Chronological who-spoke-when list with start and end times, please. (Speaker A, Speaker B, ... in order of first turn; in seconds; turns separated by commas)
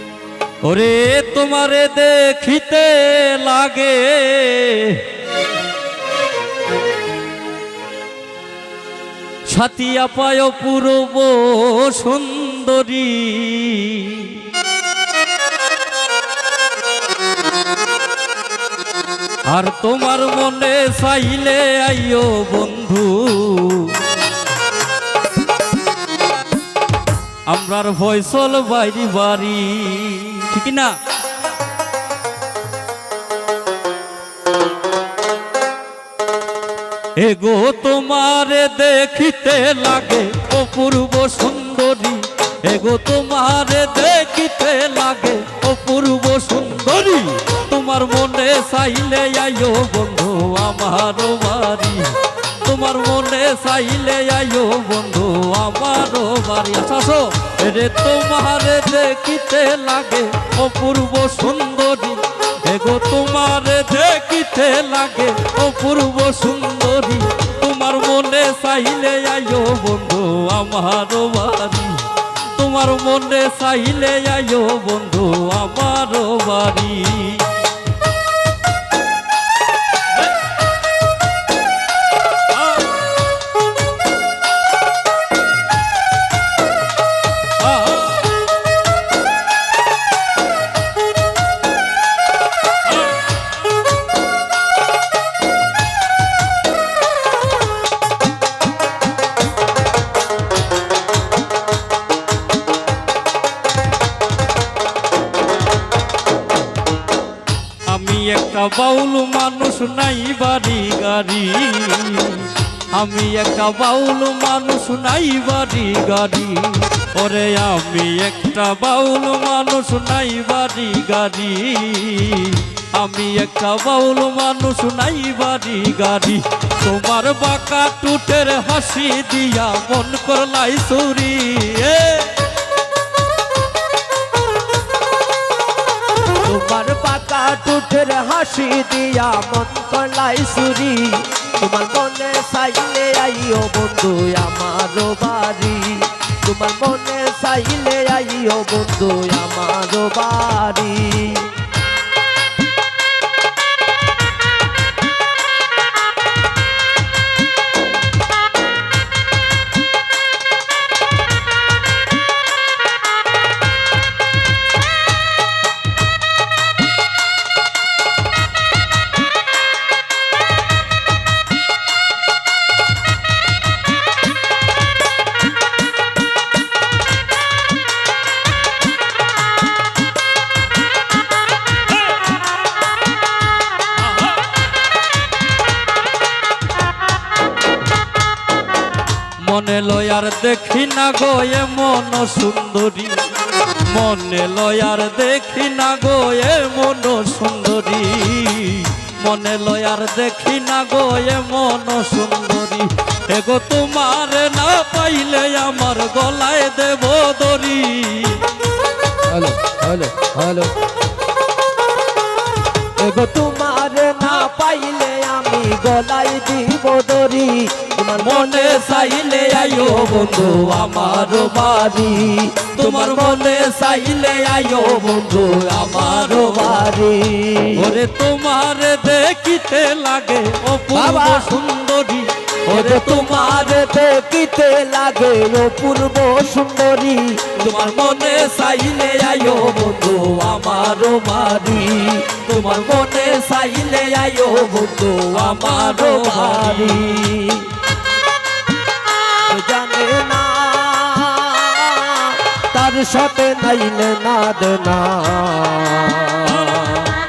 Speaker A: 0.6-5.0, Speaker A: 9.5-14.4, Speaker A: 19.5-24.1, Speaker A: 27.5-30.9, Speaker A: 37.2-77.5, Speaker A: 107.8-132.4, Speaker B: 136.4-151.5, Speaker A: 189.4-193.2, Speaker A: 193.8-208.4, Speaker B: 209.3-210.7, Speaker B: 213.0-227.8, Speaker A: 218.2-222.2, Speaker A: 222.7-226.8, Speaker A: 227.7-233.6, Speaker B: 230.9-231.5, Speaker B: 232.7-237.7, Speaker A: 237.5-241.7, Speaker B: 239.6-247.7, Speaker A: 242.3-242.9, Speaker A: 245.3-247.4, Speaker B: 249.4-257.1